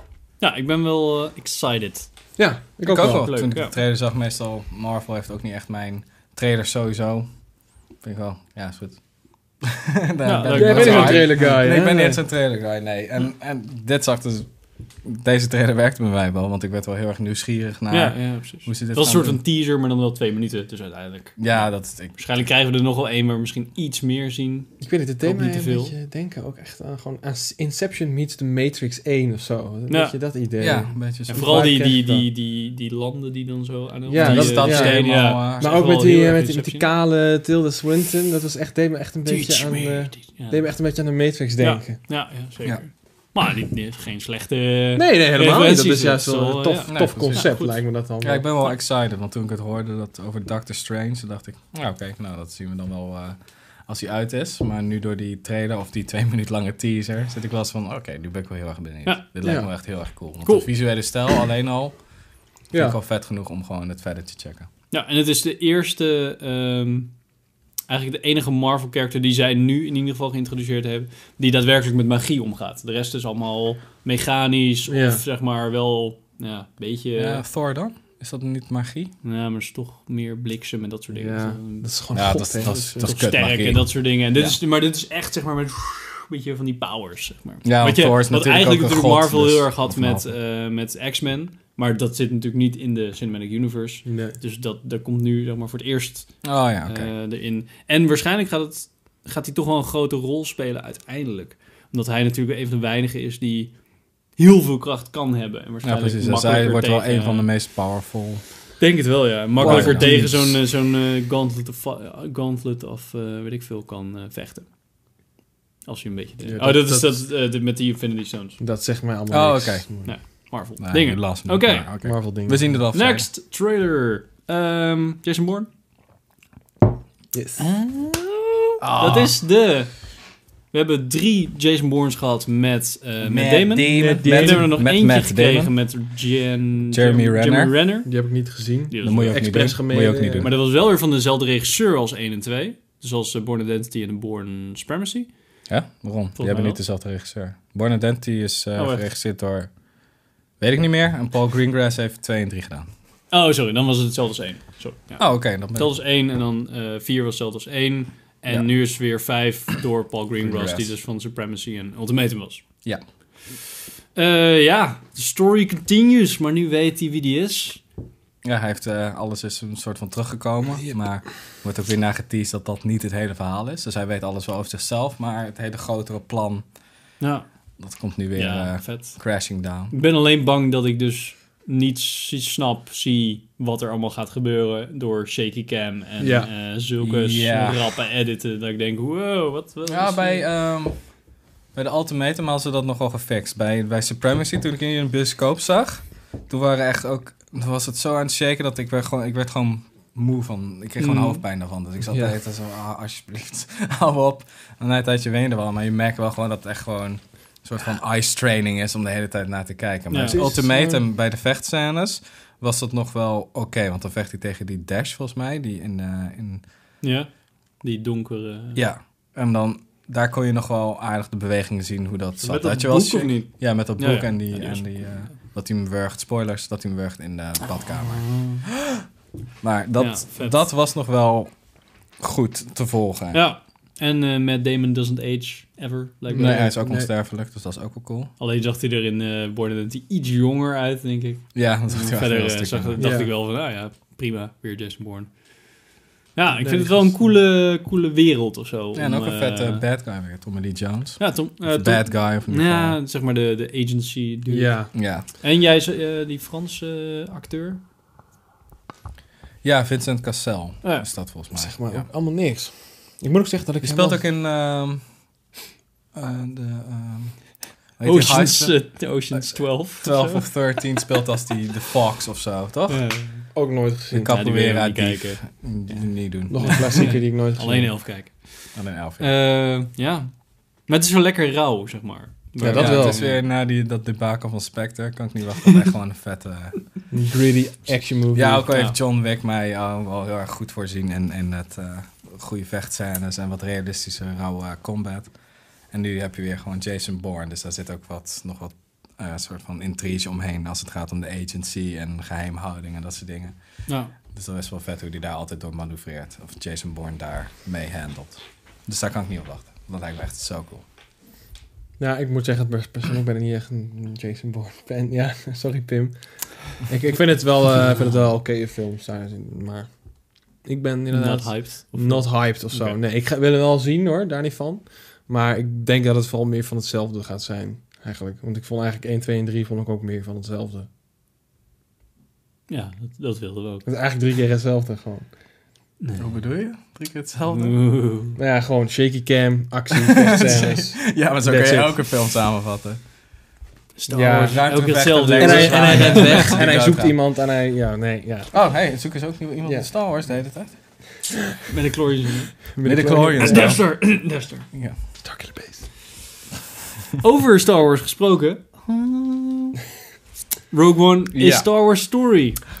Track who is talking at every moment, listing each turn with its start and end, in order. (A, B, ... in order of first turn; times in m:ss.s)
0:00.4-0:02.1 A
0:02.4-0:03.4 B
0:02.8-0:19.4 C
0:02.9-0:03.8 A
0:10.2-0:11.5 A
0:10.5-0:12.2 B
0:17.9-0:25.9 A
0:21.4-0:22.4 C
0:24.8-0:32.3 B
0:29.9-0:30.1 A
0:30.6-0:31.5 C
0:31.3-0:36.8 A
0:34.0-0:42.1 B
0:34.2-0:35.7 C
0:39.2-0:40.9 A
0:41.6-0:47.8 A
0:45.0-0:48.5 B
0:46.9-1:04.7 C
0:59.4-0:59.7 B
1:00.4-1:01.4 A
1:02.7-1:03.0 B
1:04.9-1:07.1 A
1:07.9-1:17.4 A
1:14.9-1:15.2 B
1:17.2-1:19.1 C
1:19.2-1:21.9 A
1:21.1-1:23.0 B
1:22.1-1:24.6 C
1:23.0-1:43.7 A
1:27.6-1:30.3 C
1:34.0-1:34.4 B
1:36.4-1:37.1 C
1:44.3-1:47.5 A
1:45.8-1:48.4 C
1:48.8-1:54.7 A
1:49.6-1:50.5 C
1:49.6-1:50.6 B
1:55.8-1:58.6 A
1:56.4-1:57.3 B
1:58.6-2:00.1 B
1:59.3-2:03.3 C
2:00.0-2:01.9 A
2:02.0-2:02.7 B
2:02.9-2:05.7 A
2:07.3-2:07.6 B
2:07.6-2:18.1 A
2:08.8-2:09.4 C
2:13.2-2:15.9 C
2:13.8-2:14.7 B
2:16.9-2:17.8 C
2:18.0-2:20.5 B
2:18.9-2:19.4 A
2:19.0-2:20.5 C
2:20.4-2:25.3 A
2:25.7-2:29.8 C
2:26.4-2:26.8 A
2:28.7-2:29.1 A
2:30.6-2:32.8 C
2:33.3-2:42.6 A
2:35.2-2:36.0 C
2:38.5-2:39.2 C
2:40.4-2:40.9 C
2:44.1-2:47.8 A
2:48.4-2:56.6 C
2:57.2-2:57.5 A
2:57.8-2:59.9 C
2:58.3-3:10.5 A
3:06.2-3:06.5 B
3:07.0-3:07.8 C
3:09.8-3:36.6 C
3:21.0-3:21.4 A
3:22.0-3:22.3 B
3:30.1-3:30.4 A
3:30.2-3:31.0 B
3:37.0-3:38.8 A
3:38.7-3:48.6 C
3:42.4-3:45.3 A
3:47.6-3:48.6 A
3:49.6-3:53.4 C
3:50.0-3:50.6 A
3:53.3-3:56.7 A
3:56.3-3:57.1 B
3:56.3-3:58.3 C
3:58.4-4:09.8 A
4:01.5-4:03.1 C
4:03.0-4:03.3 B
4:06.5-4:07.4 B
4:08.9-4:13.0 C
4:11.2-4:17.8 A
4:14.5-4:14.9 B
4:14.9-4:15.2 C
4:19.6-4:22.1 C
4:20.8-4:21.1 A
4:21.5-4:24.2 B
4:23.8-4:25.0 C
4:26.1-4:33.2 C
4:28.0-4:30.4 A
4:32.9-4:33.4 A
4:33.5-4:34.4 B
4:34.1-4:37.2 C
4:34.2-4:36.1 A
4:36.5-4:38.1 B
4:36.6-4:43.4 A
4:38.7-4:39.4 C
4:42.6-4:43.3 B
4:42.6-4:46.9 C
4:47.1-4:48.7 B
4:48.3-4:55.3 C
4:48.7-4:49.0 A
4:55.9-5:10.8 C
5:03.9-5:04.1 A
5:12.0-5:30.9 B
5:21.1-5:23.0 A
5:32.7-5:33.8 A
5:33.8-5:35.4 B
5:36.0-5:36.3 A
5:36.2-5:37.8 C
5:37.5-5:38.4 A
5:38.3-5:42.1 B
5:40.0-5:43.0 C
5:44.0-5:46.6 A
5:44.1-5:44.7 B
5:44.4-5:47.2 C
5:45.4-5:48.7 B
5:48.5-5:51.0 C
5:49.6-5:49.9 B
5:51.7-5:52.6 A
5:52.7-5:53.8 B
5:52.8-5:55.0 C
5:53.4-5:54.7 A
5:55.2-5:55.9 B
5:57.2-5:59.8 A
6:00.7-6:02.7 A
6:01.3-6:01.7 C